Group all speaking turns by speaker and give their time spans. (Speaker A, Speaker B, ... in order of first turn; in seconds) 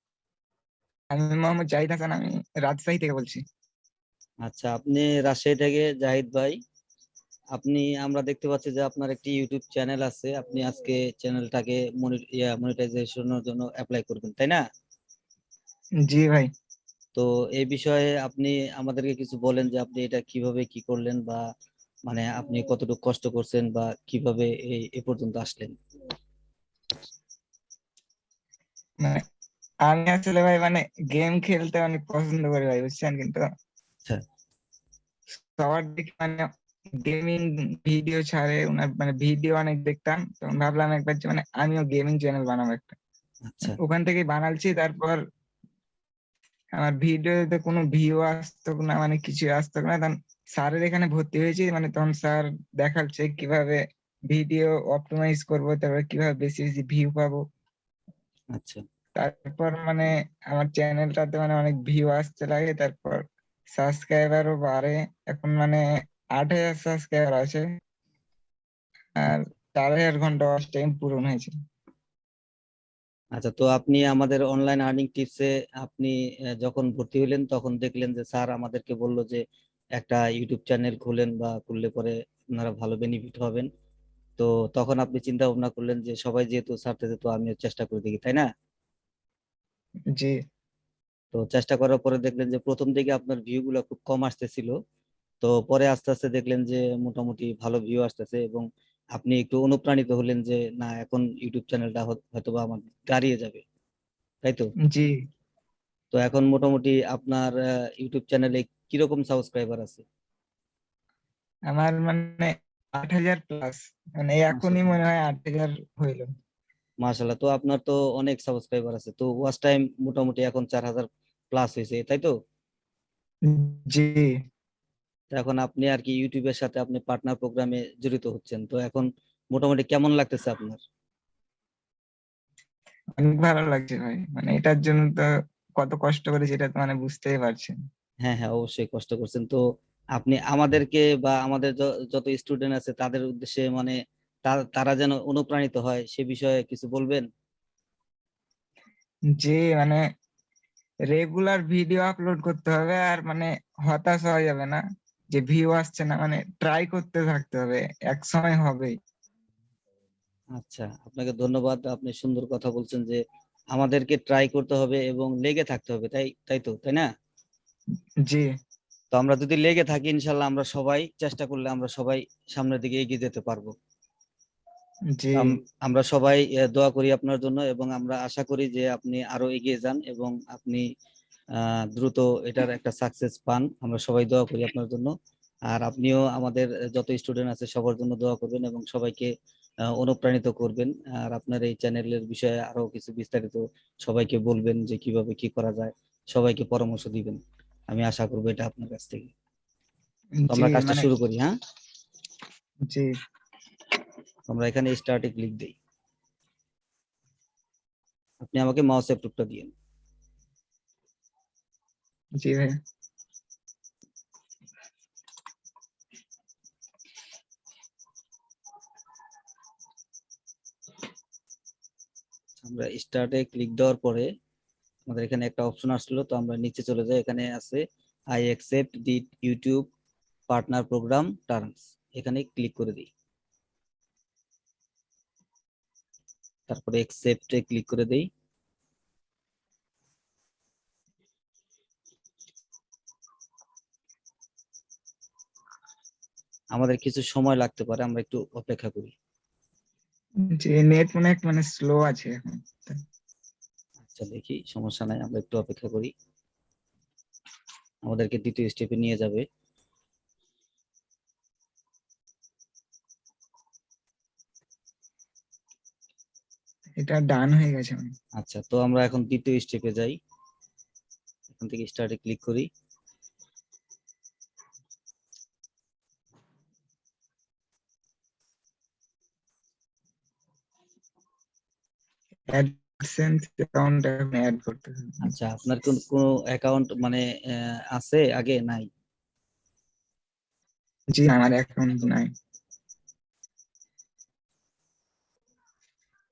Speaker A: 1.1-3.4, 16.0-16.5, 29.9-33.4, 35.6-36.5, 37.0-42.9, 43.7-45.2, 46.8-57.4, 59.2-63.2, 63.8-65.8, 66.4-67.7, 69.2-71.5, 111.7-116.2, 123.5-124.2, 133.2-135.2, 135.8-137.7, 149.4-150.0, 151.1-154.8, 155.3-158.9, 175.1-175.5, 200.4-201.1, 212.4-212.7, 250.6-253.0, 267.0-268.1, 282.5-285.3, 291.1-292.3
Speaker B: 4.4-6.5, 7.5-14.6, 17.1-21.4, 22.1-25.7, 43.5-43.8, 58.5-58.8, 73.3-79.4, 80.0-83.7, 84.4-88.4, 91.3-94.7, 95.4-98.6, 99.2-103.6, 106.1-110.0, 114.5-115.0, 117.0-122.3, 125.3-130.8, 138.2-139.6, 140.2-143.9, 144.4-147.3, 160.6-163.2, 163.7-167.1, 169.1-173.7, 175.3-180.8, 181.6-185.1, 185.7-189.3, 189.9-197.4, 197.9-199.3, 200.5-201.5, 204.5-205.7, 208.4-209.7, 222.6-224.3, 225.1-227.8, 228.3-229.8, 230.5-233.1, 236.7-238.2, 246.7-249.1, 254.0-256.1, 258.0-259.4, 268.4-270.1, 271.5-272.6, 285.2-288.9